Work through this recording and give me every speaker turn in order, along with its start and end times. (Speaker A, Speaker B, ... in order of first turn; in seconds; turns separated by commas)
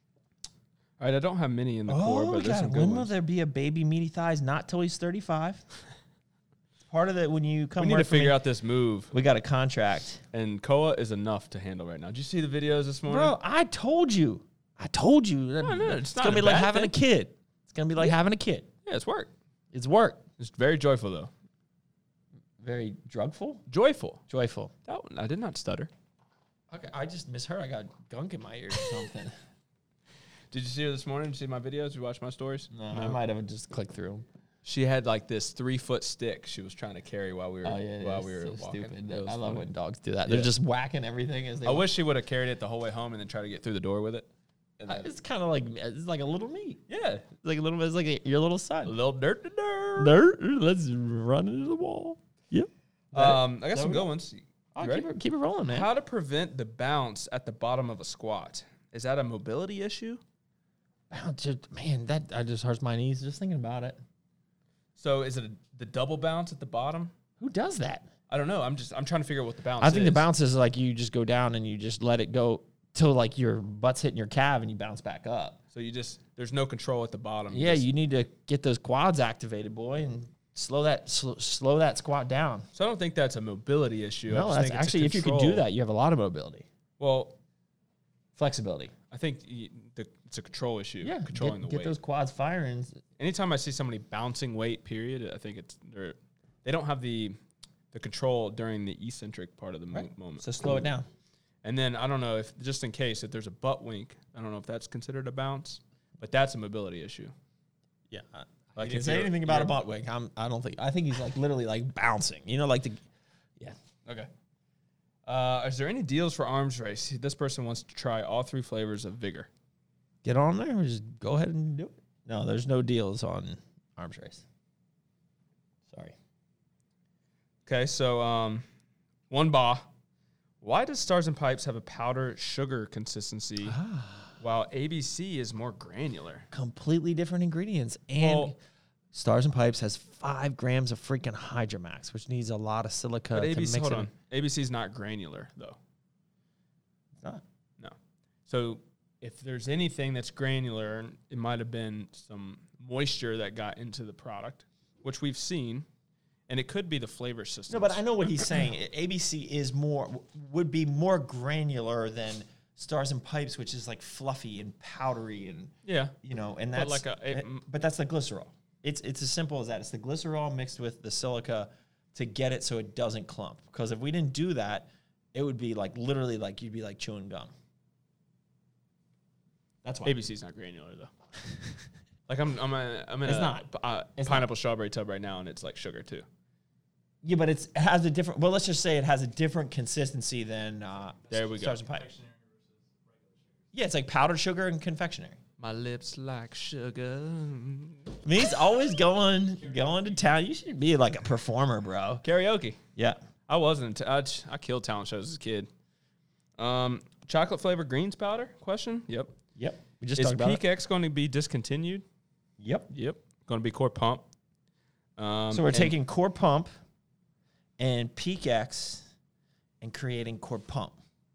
Speaker A: 1.0-3.1, Speaker B: 1.9-5.6, Speaker B: 6.8-8.4, Speaker A: 7.8-9.1, Speaker B: 9.1-10.2, Speaker A: 10.3-13.3, Speaker B: 13.1-18.7, Speaker A: 15.6-16.9, Speaker A: 18.9-19.3, Speaker B: 19.7-20.2, Speaker A: 20.4-21.3, Speaker B: 22.6-23.7, Speaker A: 23.7-24.2, Speaker B: 24.3-24.7, Speaker A: 24.9-25.9, Speaker B: 26.7-29.3, Speaker A: 30.5-33.2, Speaker B: 32.7-34.3, Speaker A: 34.6-39.7, Speaker B: 37.6-41.9, Speaker A: 40.2-40.5, Speaker A: 41.6-44.3, Speaker A: 44.8-45.1, Speaker B: 44.9-46.8, Speaker A: 46.9-47.2, Speaker B: 47.4-48.9, Speaker A: 48.9-50.2, Speaker B: 50.0-54.1, Speaker A: 53.1-55.1, Speaker B: 54.8-55.9, Speaker A: 55.7-60.2, Speaker B: 61.1-64.0, Speaker A: 65.0-67.1, Speaker B: 67.4-68.1, Speaker A: 68.3-70.3, Speaker B: 69.8-75.6, Speaker A: 75.7-77.9, Speaker B: 77.5-82.7, Speaker A: 82.7-85.6, Speaker B: 84.3-86.7, Speaker A: 87.0-87.4, Speaker B: 88.3-88.9, Speaker A: 89.1-92.0, Speaker B: 91.0-93.0, Speaker A: 93.2-97.4, Speaker A: 97.9-100.9, Speaker B: 99.9-101.1, Speaker A: 101.6-107.3, Speaker B: 108.1-113.0, Speaker A: 108.8-109.8, Speaker A: 115.3-119.5, Speaker B: 120.2-124.5, Speaker B: 125.9-126.2, Speaker A: 127.7-128.6, Speaker A: 129.3-129.9, Speaker A: 130.6-133.8, Speaker B: 133.7-134.3, Speaker A: 134.4-136.5, Speaker B: 136.5-138.6, Speaker A: 138.2-138.5, Speaker B: 139.1-144.1, Speaker A: 143.3-145.8, Speaker A: 147.8-155.9, Speaker A: 156.5-158.6, Speaker B: 157.7-165.7, Speaker A: 165.8-166.2, Speaker B: 166.2-177.5, Speaker A: 166.7-167.7, Speaker B: 179.8-180.2, Speaker A: 180.1-181.1, Speaker A: 182.3-186.3, Speaker B: 183.2-184.5, Speaker B: 187.2-192.2, Speaker A: 191.3-191.8, Speaker B: 193.7-195.4, Speaker A: 195.6-198.1, Speaker B: 198.2-202.2, Speaker A: 202.2-202.8, Speaker A: 203.5-205.7, Speaker A: 206.6-209.4, Speaker B: 209.6-210.6, Speaker A: 210.2-212.0, Speaker B: 212.6-212.9, Speaker A: 212.9-214.3, Speaker A: 215.2-216.0, Speaker B: 215.5-216.7, Speaker B: 217.8-219.1, Speaker B: 219.8-221.0